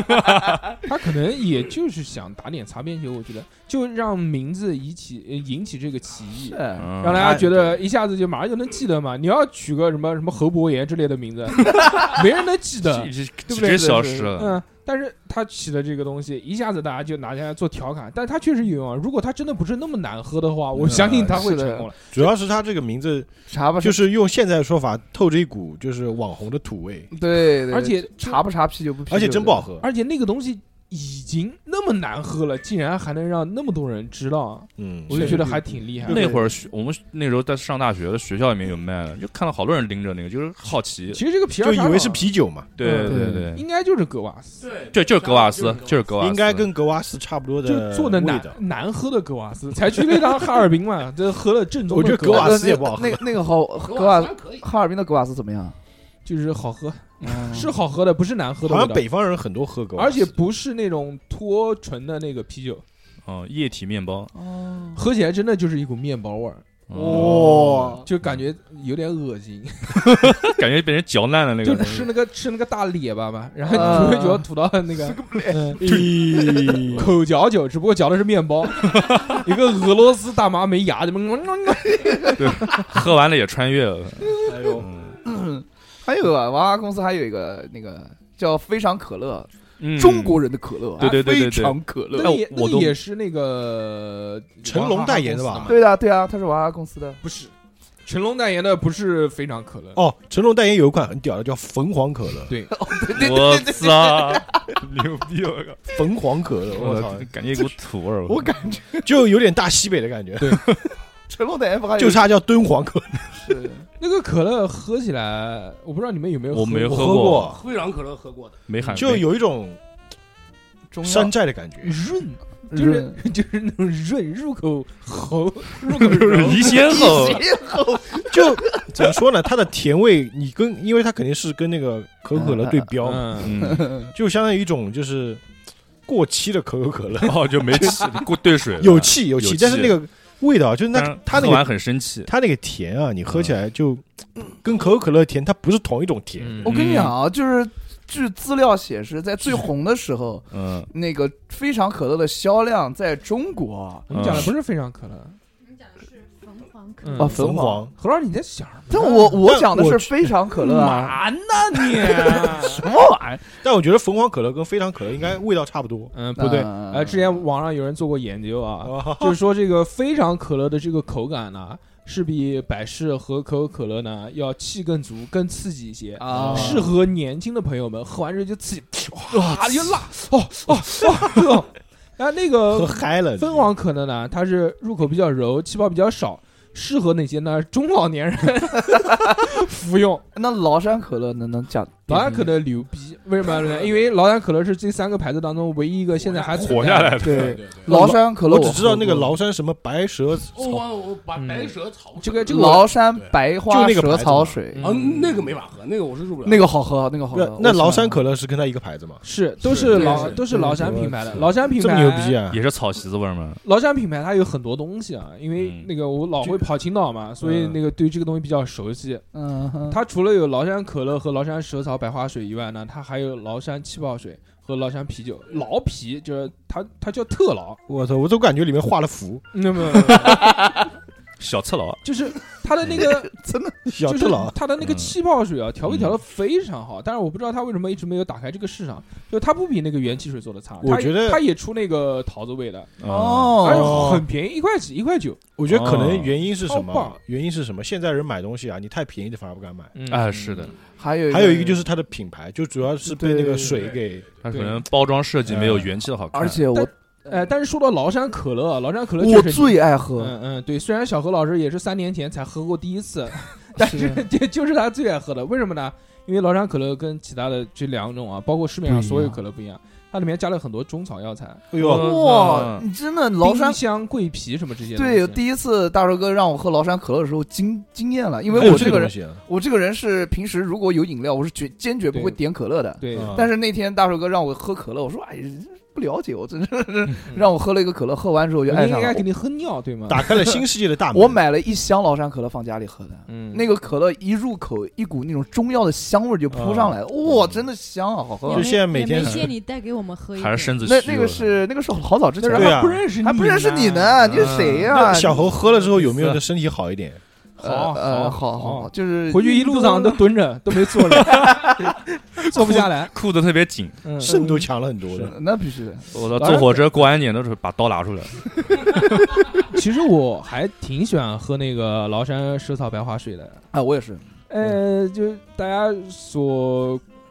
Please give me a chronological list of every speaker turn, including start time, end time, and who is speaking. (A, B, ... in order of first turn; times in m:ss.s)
0:00.8-0:13.1 A
0:06.5-0:06.9 B
0:06.8-0:07.5 C
0:07.1-0:07.8 D
0:12.8-0:14.6 C
0:13.5-0:14.3 B
0:14.4-0:22.0 A
0:20.8-0:21.4 D
0:21.2-0:21.9 B
0:22.1-0:23.3 D
0:23.5-0:24.0 B
0:23.8-0:27.1 D
0:27.1-0:29.7 B
0:27.7-0:28.4 A
0:29.1-0:29.9 D
0:29.8-0:36.4 A
0:34.8-0:35.6 D
0:35.1-0:36.4 B
0:36.1-0:41.2 C
0:41.1-0:44.7 A
0:41.6-0:42.7 D
0:42.8-0:43.6 C
0:43.1-0:43.5 B
0:44.6-0:46.1 E
0:44.9-0:46.7 C
0:46.2-0:48.6 D
0:47.6-0:52.6 A
0:51.9-0:53.3 D
0:52.3-0:55.8 B
0:53.8-0:54.7 E
0:56.2-0:59.1 A
0:57.2-0:57.8 B
0:58.6-1:00.4 D
1:00.0-1:02.8 A
1:03.2-1:04.3 C
1:04.3-1:05.0 B
1:05.0-1:06.6 A
1:06.9-1:07.6 C
1:06.9-1:08.0 D
1:07.0-1:08.0 B
1:08.0-1:10.3 A
1:10.0-1:12.1 C
1:11.6-1:16.0 A
1:13.7-1:16.0 B
1:15.7-1:17.1 D
1:16.5-1:17.0 B
1:16.9-1:22.4 A
1:18.8-1:19.4 C
1:22.0-1:22.4 B
1:22.4-1:25.2 C
1:24.2-1:32.4 B
1:24.5-1:24.9 D
1:29.8-1:30.4 C
1:31.0-1:33.0 C
1:32.2-1:35.8 A
1:34.6-1:35.8 D
1:35.7-1:37.2 B
1:37.2-1:37.5 A
1:38.1-1:40.0 A
1:40.0-1:42.5 D
1:42.7-1:44.7 B
1:43.1-1:45.8 C
1:45.9-1:47.3 D
1:46.8-1:48.5 C
1:48.3-1:49.1 B
1:49.0-1:50.9 D
1:51.3-1:52.3 B
1:52.0-1:53.5 D
1:53.4-1:53.9 B
1:54.0-1:57.3 A
1:56.5-1:57.6 C
1:56.9-1:57.6 D
1:57.4-1:58.6 E
1:58.7-1:59.3 C
1:58.9-1:59.8 D
2:00.9-2:01.3 B
2:01.0-2:02.0 D
2:01.8-2:06.9 A
2:02.7-2:03.2 B
2:05.9-2:07.5 C
2:06.2-2:09.2 B
2:08.3-2:15.4 D
2:12.4-2:12.9 B
2:13.0-2:13.6 A
2:13.4-2:14.0 C
2:13.6-2:14.1 B
2:16.1-2:18.2 D
2:17.2-2:20.0 C
2:18.8-2:21.7 D
2:20.9-2:22.3 C
2:22.2-2:26.7 D
2:23.3-2:23.5 C
2:26.4-2:26.8 A
2:26.6-2:27.2 C
2:26.6-2:34.1 B
2:30.5-2:30.9 C
2:34.1-2:35.4 A
2:34.1-2:34.5 C
2:35.7-2:37.3 F
2:37.0-2:39.3 A
2:37.2-2:37.9 B
2:37.3-2:37.9 D
2:38.9-2:41.2 B
2:39.0-2:40.4 D
2:40.6-2:42.8 A
2:41.7-2:43.6 B
2:43.6-2:46.1 D
2:46.1-3:10.2 A
2:46.4-2:47.4 B
2:48.8-2:49.4 D
2:56.2-2:56.9 B
2:56.3-2:56.9 D
2:59.4-2:59.6 B
3:02.7-3:03.7 D
3:10.4-3:12.5 B
3:12.1-3:17.5 A
3:13.6-3:13.9 E
3:16.2-3:18.0 E
3:16.6-3:17.6 C
3:17.2-3:19.3 B
3:17.9-3:20.9 D
3:20.5-3:23.4 E
3:21.4-3:22.9 A
3:22.5-3:24.8 B
3:23.6-3:24.6 D
3:24.7-3:25.2 A
3:24.8-3:26.7 E
3:26.4-3:28.2 B
3:27.3-3:29.2 D
3:29.2-3:32.4 A
3:29.7-3:30.4 E
3:29.8-3:32.6 D
3:29.9-3:30.8 B
3:32.5-3:33.6 C
3:33.6-3:39.2 A
3:35.6-3:35.9 C
3:36.4-3:36.7 D
3:37.4-3:37.8 D
3:39.3-3:40.0 B
3:39.9-3:47.8 A
3:47.9-3:50.3 D
3:49.5-3:50.4 A
3:50.2-3:50.7 B
3:51.4-3:52.0 C
3:52.0-3:53.3 A
3:53.0-3:53.8 B
3:53.9-3:54.6 D
3:54.0-4:02.9 A
3:54.8-3:55.2 C
3:55.9-3:56.2 C
4:00.8-4:01.4 D
4:03.0-4:03.6 C
4:03.0-4:04.1 B
4:03.6-4:05.4 A
4:03.6-4:04.3 D
4:05.6-4:09.9 D
4:05.7-4:06.4 C
4:06.6-4:07.2 A
4:10.0-4:10.7 A
4:10.1-4:10.8 C
4:11.0-4:11.9 B
4:11.3-4:14.3 D
4:13.0-4:14.0 B
4:14.4-4:16.6 C
4:14.5-4:14.8 A
4:15.5-4:16.0 D
4:16.3-4:16.9 B
4:16.7-4:31.6 A
4:19.2-4:20.4 B
4:23.8-4:24.2 B
4:28.9-4:29.4 D
4:31.7-4:32.2 D
4:31.7-4:32.9 C
4:31.8-4:33.8 B
4:33.4-4:35.4 A
4:35.0-4:49.3 B
4:38.5-4:39.4 D
4:38.5-4:39.0 A
4:42.1-4:42.4 A
4:43.0-4:43.4 A
4:43.1-4:43.5 D
4:48.7-4:50.3 A
4:50.1-4:51.4 D
4:51.1-4:58.7 B
4:53.3-4:53.6 A
4:56.5-4:57.0 D
4:58.5-5:00.8 F
4:58.5-4:59.5 D
5:00.4-5:01.6 C
5:00.8-5:05.4 B
5:02.4-5:06.4 A
5:02.5-5:03.0 D
5:04.3-5:04.8 C
5:04.4-5:07.2 D
5:07.6-5:13.1 A
5:07.6-5:10.2 B
5:11.2-5:11.9 C
5:12.4-5:14.0 C
5:14.0-5:14.6 A
5:14.2-5:15.4 D
5:14.2-5:17.0 B
5:16.1-5:18.4 C
5:19.7-5:23.6 A
5:23.7-5:24.2 B
5:24.5-5:27.0 A